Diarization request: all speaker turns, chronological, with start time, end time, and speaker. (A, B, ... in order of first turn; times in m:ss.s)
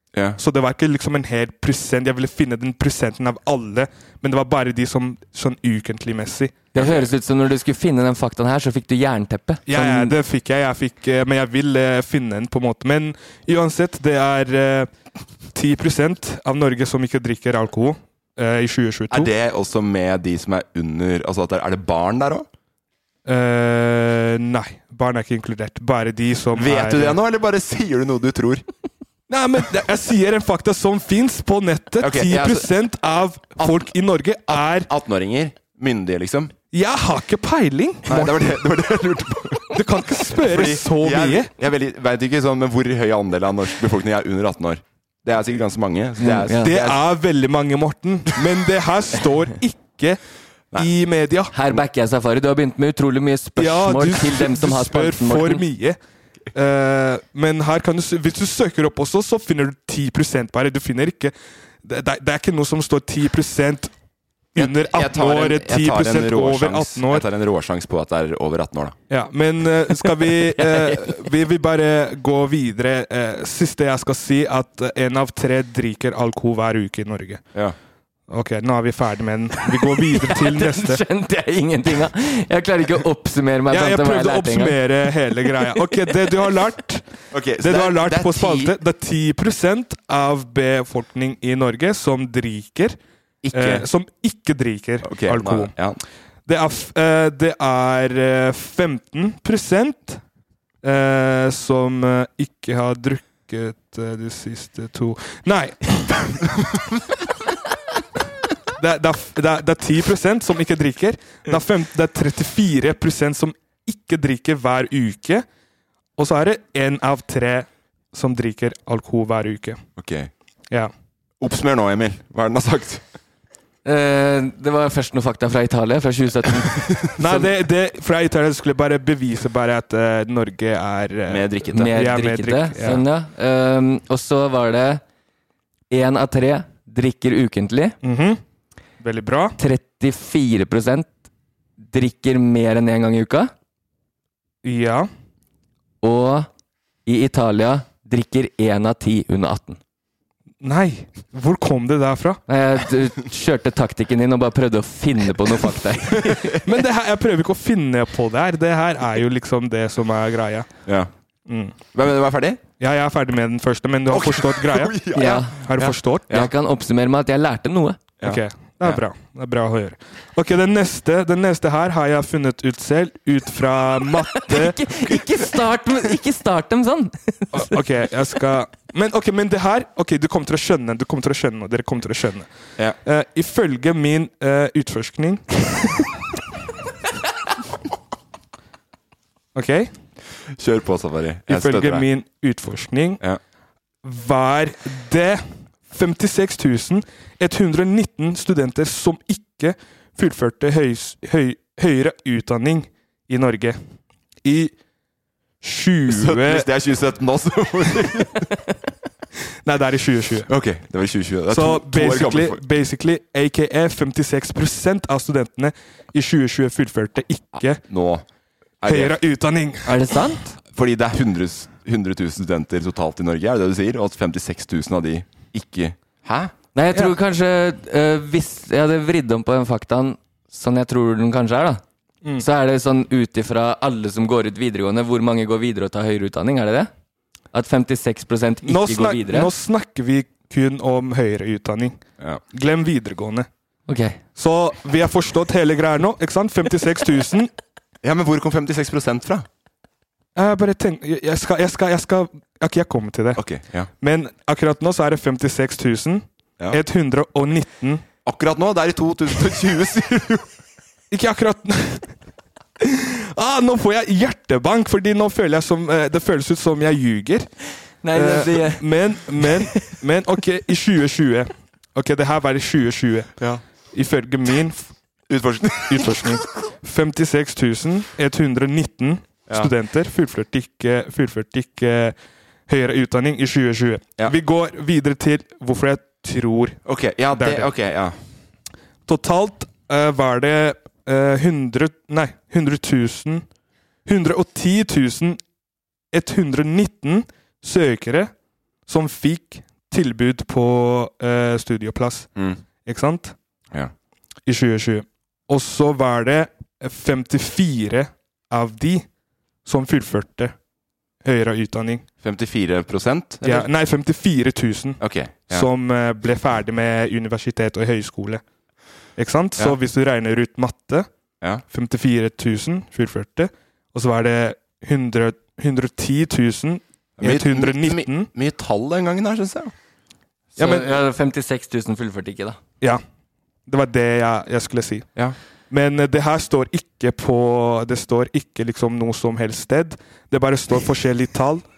0:00.1-0:00.4 A
0:00.4-0:06.7 B
0:06.7-0:10.1 C
0:09.7-0:14.9 B
0:15.5-0:19.3 B
0:19.1-0:22.5 A
0:23.3-0:27.2 B
0:26.6-0:28.6 A
0:29.3-0:34.9 B
0:32.0-0:32.7 A
0:33.6-0:33.9 A
0:34.5-0:36.5 A
0:36.7-0:38.4 B
0:38.0-0:47.1 A
0:39.7-0:41.5 B
0:46.2-0:46.8 C
0:46.6-0:50.2 B
0:50.8-0:51.5 B
0:51.5-0:55.6 C
0:53.6-0:56.0 B
0:56.5-1:03.9 B
1:04.6-1:07.3 B
1:04.6-1:09.0 A
1:09.1-1:17.4 B
1:10.7-1:11.0 C
1:18.3-1:21.0 B
1:20.1-1:24.9 C
1:23.7-1:27.1 B
1:27.3-1:28.8 A
1:27.6-1:33.0 B
1:33.4-1:33.9 A
1:33.5-1:35.7 B
1:35.0-1:36.0 A
1:36.5-1:40.2 B
1:40.8-1:46.2 B
1:48.8-1:55.4 B
1:56.2-1:59.8 B
2:00.0-2:00.3 A
2:01.4-2:03.0 A
2:03.8-2:06.8 C
2:07.2-2:13.0 B
2:11.3-2:12.0 A
2:11.7-2:15.0 C
2:15.9-2:18.0 C
2:18.0-2:18.4 B
2:19.0-2:19.6 B
2:19.6-2:21.1 C
2:21.9-2:23.5 C
2:24.6-2:25.1 B
2:26.0-2:26.5 C
2:27.1-2:29.8 C
2:30.6-2:32.4 B
2:32.5-2:36.6 C
2:36.1-2:36.6 A
2:36.6-2:40.7 B
2:41.5-2:41.8 B
2:41.9-2:42.6 A
2:42.8-2:46.4 B
2:44.1-2:46.5 A
2:45.1-2:45.6 C
2:46.3-2:48.1 C
2:48.2-2:49.0 A
2:48.2-2:54.8 B
2:54.4-2:57.8 C
2:57.5-3:02.5 B
3:03.0-3:06.1 B
3:09.6-3:09.9 B
3:10.6-3:12.1 A
3:11.5-3:13.2 B
3:14.0-3:23.8 B
3:24.4-3:24.8 B
3:25.6-3:26.7 B
3:26.1-3:28.5 A
3:29.6-3:30.5 B
3:30.5-3:32.7 A
3:31.5-3:37.8 B
3:37.6-3:38.2 A
3:38.8-3:39.2 A
3:38.8-3:40.0 B
3:39.9-3:40.6 C
3:40.7-3:46.6 A
3:46.8-3:51.8 C
3:52.4-3:56.9 C
3:57.5-3:59.5 C
3:58.7-4:02.0 B
4:02.5-4:03.5 B
4:03.9-4:04.2 C
4:04.4-4:07.5 B
4:08.0-4:09.5 A
4:10.4-4:13.4 B
4:13.4-4:13.9 A
4:14.0-4:18.0 B
4:18.2-4:20.5 A
4:21.1-4:22.1 B
4:22.8-4:27.5 B
4:28.0-4:29.9 C
4:28.1-4:33.3 B
4:33.9-4:34.9 B
4:35.3-4:36.4 A
4:35.9-4:42.1 B
4:42.7-4:46.8 B
4:46.8-4:48.1 A
4:47.3-4:47.7 B
4:49.1-4:53.4 B
4:54.1-4:55.4 B
4:56.1-4:58.3 B
4:58.9-5:02.3 B
5:02.8-5:03.4 B
5:04.5-5:09.1 B
5:09.6-5:10.5 B
5:11.2-5:12.1 B
5:12.2-5:13.7 A
5:13.4-5:18.4 B
5:15.0-5:15.7 A
5:19.2-5:21.1 B
5:21.7-5:28.3 B
5:27.2-5:29.7 A
5:30.6-5:30.8 B
5:30.6-5:32.6 C
5:33.7-5:35.1 B
5:35.7-5:41.6 B